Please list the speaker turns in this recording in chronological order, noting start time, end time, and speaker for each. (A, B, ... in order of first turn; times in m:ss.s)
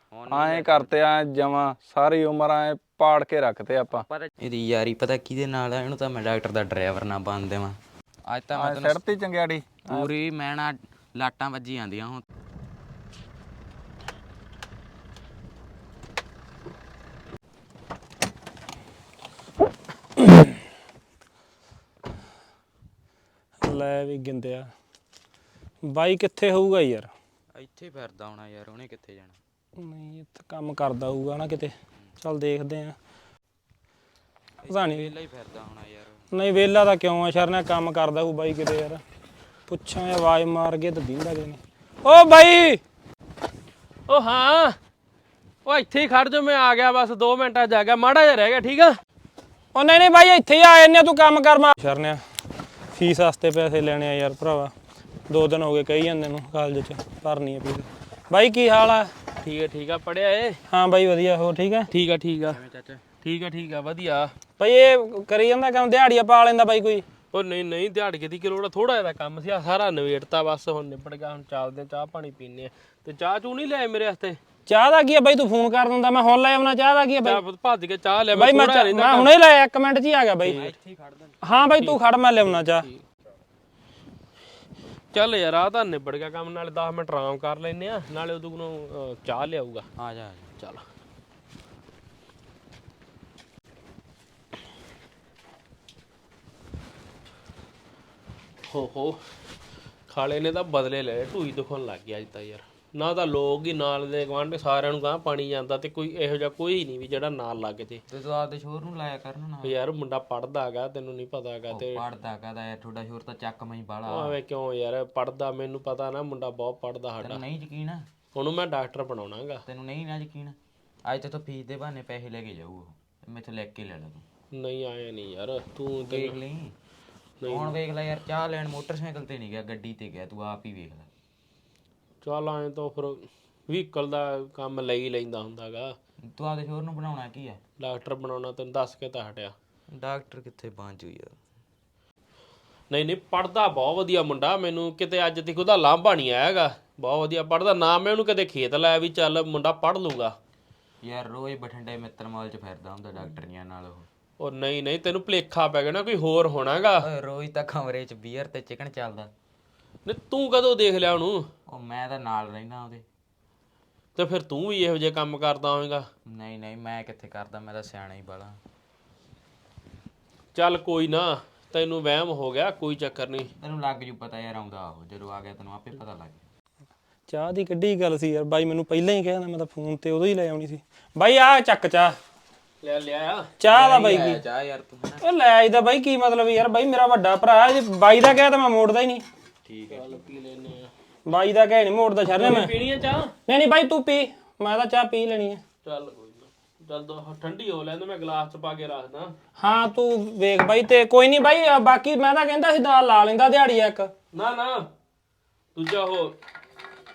0:00.1-0:01.0 A
0:00.3-0:04.0 B
0:03.9-0:09.0 A
0:08.6-0:10.1 B
0:09.9-0:12.2 A
0:20.2-0:20.5 C
0:23.6-0:24.7 C
0:25.8-0:27.1 C
0:27.6-0:29.4 A
0:29.8-0:33.0 C
0:34.6-0:36.2 A
0:34.7-0:35.1 C
0:36.3-0:39.0 C
0:39.7-0:42.8 C
0:44.1-0:44.8 D
0:45.7-0:49.0 D
0:49.8-0:52.2 C
0:52.9-0:54.7 C
0:55.3-0:59.1 C
0:59.4-1:00.6 D
1:00.7-1:01.9 C
1:01.9-1:02.6 D
1:02.5-1:03.0 A
1:03.2-1:04.3 D
1:04.6-1:07.0 C
1:07.3-1:14.4 D
1:14.7-1:17.4 C
1:17.2-1:19.3 D
1:18.3-1:20.6 C
1:20.4-1:20.7 D
1:20.4-1:21.4 A
1:21.4-1:22.9 C
1:21.8-1:23.0 D
1:25.1-1:29.9 D
1:30.0-1:30.5 A
1:38.7-1:39.2 D
1:40.1-1:48.0 D
1:48.1-1:49.8 A
1:49.6-1:52.0 D
1:51.7-1:54.4 A
1:54.1-1:57.4 D
1:57.2-1:58.1 A
1:58.3-1:59.6 D
1:59.7-2:04.2 A
2:04.5-2:06.4 D
2:06.0-2:06.7 A
2:07.4-2:07.8 D
2:07.4-2:11.1 A
2:12.2-2:15.9 D
2:16.2-2:17.6 A
2:17.8-2:19.5 D
2:19.9-2:21.4 A
2:22.9-2:30.3 D
2:31.0-2:34.1 A
2:34.4-2:37.0 D
2:37.0-2:39.3 A
2:40.1-2:41.4 D
2:41.7-2:43.0 A
2:44.2-2:46.1 D
2:46.3-2:48.6 A
2:50.6-2:53.5 D
2:53.6-2:56.4 A
2:57.3-3:02.2 C
3:02.8-3:03.6 D
3:03.6-3:04.4 C
3:03.7-3:05.2 A
3:05.2-3:09.2 C
3:09.6-3:10.1 A
3:09.9-3:10.9 D
3:11.3-3:12.7 C
3:12.3-3:13.3 D
3:13.5-3:15.6 C
3:15.8-3:19.3 D
3:19.6-3:24.1 C
3:24.3-3:24.9 D
3:25.8-3:26.4 D